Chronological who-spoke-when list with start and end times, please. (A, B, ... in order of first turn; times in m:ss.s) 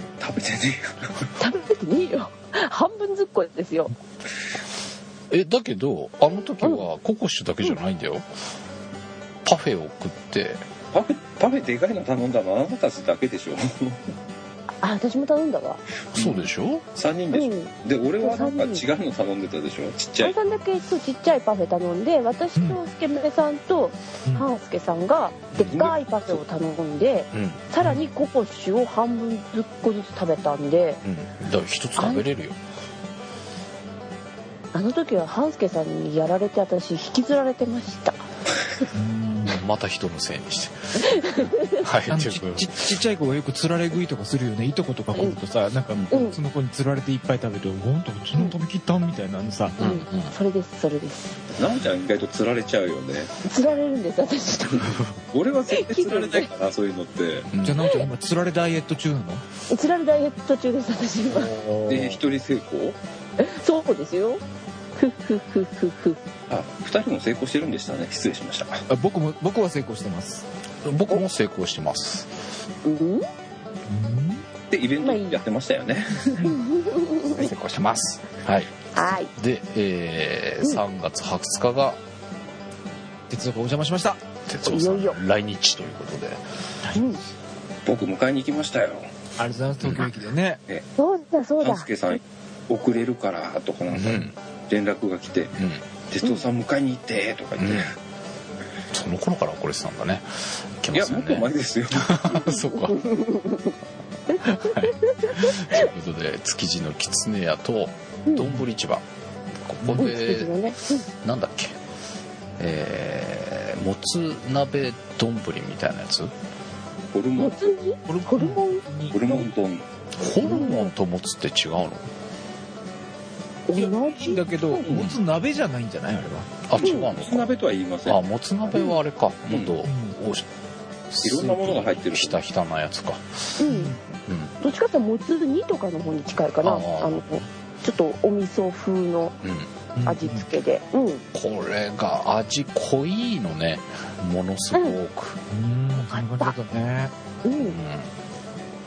0:00.2-0:01.3 A
0:01.4-0:03.9 B
0:05.3-0:08.3 C
0:09.4-0:10.6 C
0:10.9-0:14.1 A
0:14.8-0:15.8 B
0:16.1-0:16.4 A
0:16.1-0:16.8 C
0:16.9-0:20.3 A
0:17.3-0:18.8 B
0:20.2-0:31.0 B
0:25.5-0:25.8 C
0:25.6-0:26.4 A
0:27.3-0:27.6 C
0:31.0-0:32.6 C
0:32.0-0:32.2 B
0:34.7-0:38.2 B
0:38.9-0:39.6 D
0:39.5-0:43.0 C
0:41.0-0:41.8 B
0:42.1-0:49.8 D
0:46.1-0:46.4 B
0:49.8-0:50.3 C
0:49.8-0:51.4 B
0:51.6-0:53.3 A
0:53.4-0:55.0 B
0:55.3-0:57.5 A
0:55.7-0:56.5 B
0:57.5-0:57.9 C
0:57.6-0:59.4 D
0:59.7-1:01.5 B
1:01.3-1:02.2 C
1:01.9-1:03.0 A
1:03.4-1:04.4 B
1:05.0-1:06.2 B
1:06.5-1:08.8 A
1:08.9-1:10.4 D
1:10.8-1:12.3 C
1:12.8-1:13.2 B
1:13.9-1:14.4 D
1:14.7-1:16.5 A
1:15.0-1:15.4 B
1:16.3-1:17.5 B
1:17.3-1:22.0 C
1:18.9-1:19.3 B
1:23.3-1:24.2 D
1:24.4-1:26.4 C
1:24.6-1:25.2 B
1:26.9-1:27.2 B
1:27.8-1:29.1 A
1:29.4-1:30.6 D
1:29.8-1:30.1 C
1:31.0-1:31.9 B
1:31.6-1:35.6 A
1:33.9-1:34.3 C
1:35.6-1:35.8 C
1:36.1-1:37.9 A
1:37.6-1:37.9 C
1:38.9-1:43.0 C
1:40.9-1:42.4 A
1:42.7-1:43.7 B
1:44.3-1:45.9 B
1:44.4-1:49.0 C
1:49.6-1:51.8 C
1:49.8-1:50.1 D
1:50.0-1:51.1 B
1:52.6-1:56.3 C
1:57.1-1:57.7 A
1:57.4-1:58.8 B
1:58.1-1:59.5 D
1:59.1-1:59.8 A
2:00.2-2:02.1 C
2:00.4-2:00.9 B
2:03.7-2:04.8 B
2:03.7-2:06.5 D
2:04.8-2:05.2 A
2:06.7-2:07.5 C
2:06.8-2:07.1 B
2:06.8-2:08.2 A
2:08.0-2:10.5 C
2:09.5-2:09.8 A
2:09.8-2:10.2 D
2:11.1-2:13.6 C
2:11.2-2:12.4 A
2:13.6-2:13.9 B
2:13.6-2:14.0 D
2:14.2-2:14.5 C
2:14.6-2:19.4 B
2:16.6-2:17.4 C
2:19.4-2:19.7 C
2:19.9-2:20.4 D
2:20.0-2:21.2 B
2:21.3-2:25.4 C
2:25.5-2:27.1 D
2:26.1-2:26.5 B
2:27.4-2:27.8 B
2:27.6-2:28.1 C